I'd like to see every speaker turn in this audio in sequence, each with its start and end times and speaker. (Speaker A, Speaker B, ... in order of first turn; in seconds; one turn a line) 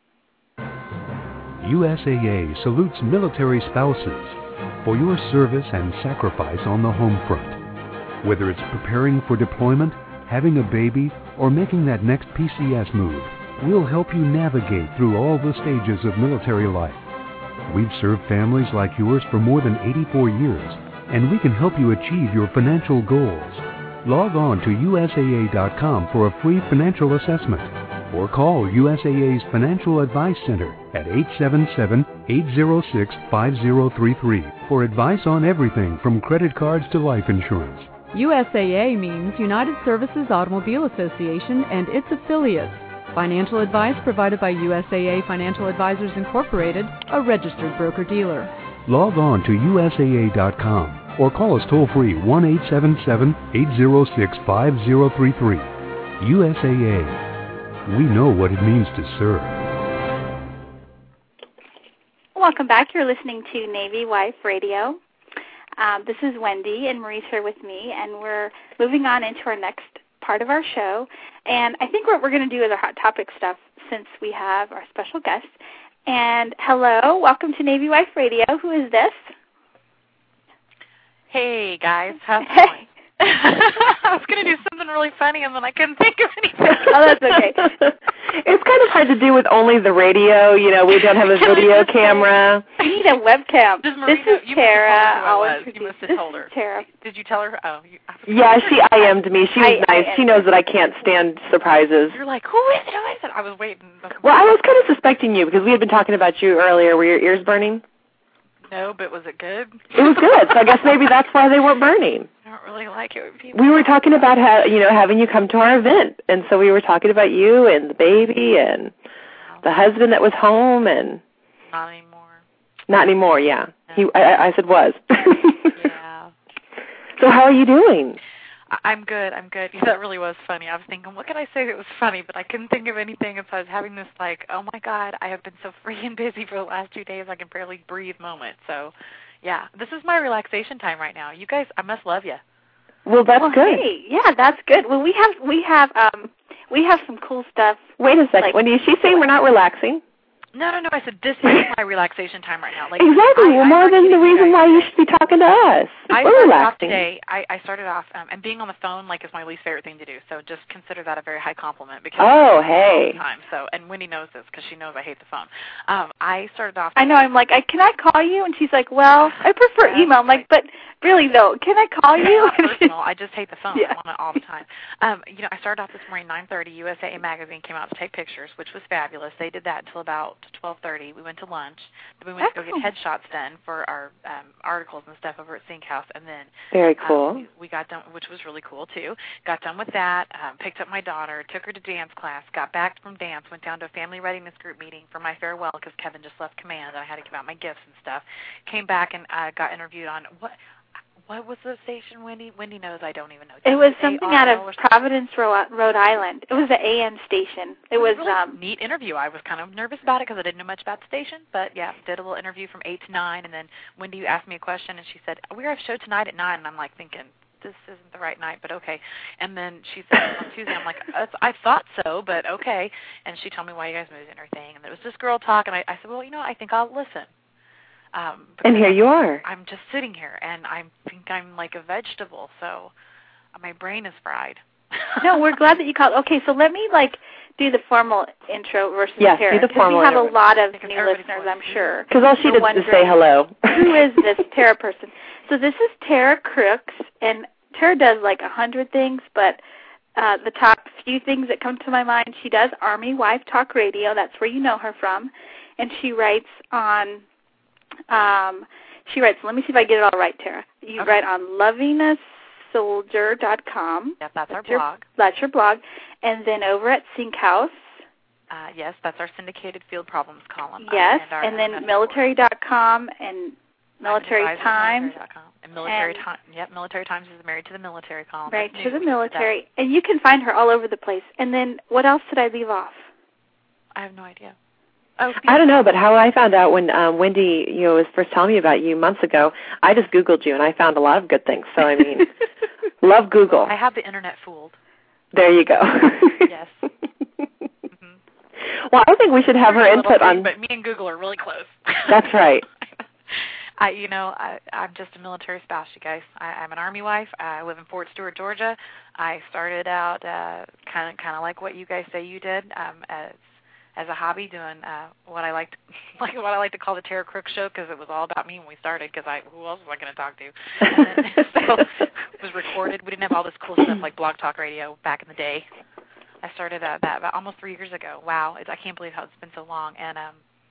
Speaker A: 1.6-7.6
Speaker A: 8.2-17.0
Speaker A: 17.7-37.9
Speaker B: 38.1-48.5
Speaker A: 48.9-57.2
Speaker A: 57.9-59.6
Speaker C: 62.3-65.0
Speaker C: 65.8-75.5
Speaker C: 76.1-79.3
Speaker D: 81.3-87.3
Speaker C: 82.4-82.8
Speaker C: 86.8-87.7
Speaker E: 88.3-92.7
Speaker D: 91.1-91.9
Speaker C: 92.0-92.2
Speaker C: 92.8-96.8
Speaker D: 93.8-99.1
Speaker E: 98.3-102.2
Speaker C: 99.6-100.4
Speaker D: 102.1-104.5
Speaker E: 104.2-107.8
Speaker D: 108.6-110.9
Speaker E: 109.9-112.3
Speaker D: 112.4-114.3
Speaker E: 113.5-118.9
Speaker E: 119.6-121.2
Speaker D: 121.7-122.4
Speaker E: 122.9-125.7
Speaker D: 125.7-126.3
Speaker E: 127.2-128.2
Speaker D: 128.7-142.4
Speaker E: 143.1-143.8
Speaker C: 143.4-148.6
Speaker E: 148.0-150.0
Speaker D: 150.5-154.9
Speaker E: 153.0-157.0
Speaker D: 156.1-167.2
Speaker E: 162.2-163.2
Speaker C: 166.9-172.9
Speaker D: 169.2-170.4
Speaker D: 172.2-200.6
Speaker C: 182.4-182.8
Speaker E: 186.7-187.4
Speaker D: 201.3-204.8
Speaker C: 203.6-208.6
Speaker D: 207.9-227.3
Speaker D: 228.1-232.9
Speaker E: 228.6-229.4
Speaker D: 233.5-235.4
Speaker C: 235.2-243.1
Speaker E: 239.2-240.3
Speaker D: 240.7-241.9
Speaker E: 242.1-244.0
Speaker C: 243.7-249.6
Speaker C: 250.2-257.2
Speaker C: 258.1-267.8
Speaker D: 264.2-265.0
Speaker D: 268.5-272.2
Speaker C: 270.8-275.1
Speaker D: 274.0-279.5
Speaker C: 275.8-276.2
Speaker C: 278.5-283.1
Speaker D: 283.9-284.5
Speaker D: 285.2-285.8
Speaker E: 285.4-292.3
Speaker E: 293.0-293.7
Speaker D: 293.6-294.8
Speaker E: 295.3-296.5
Speaker D: 296.4-296.9
Speaker D: 297.9-298.2
Speaker E: 298.9-300.5
Speaker D: 299.6-302.3
Speaker E: 302.1-302.6
Speaker D: 303.3-313.4
Speaker D: 313.9-325.7
Speaker D: 326.4-330.4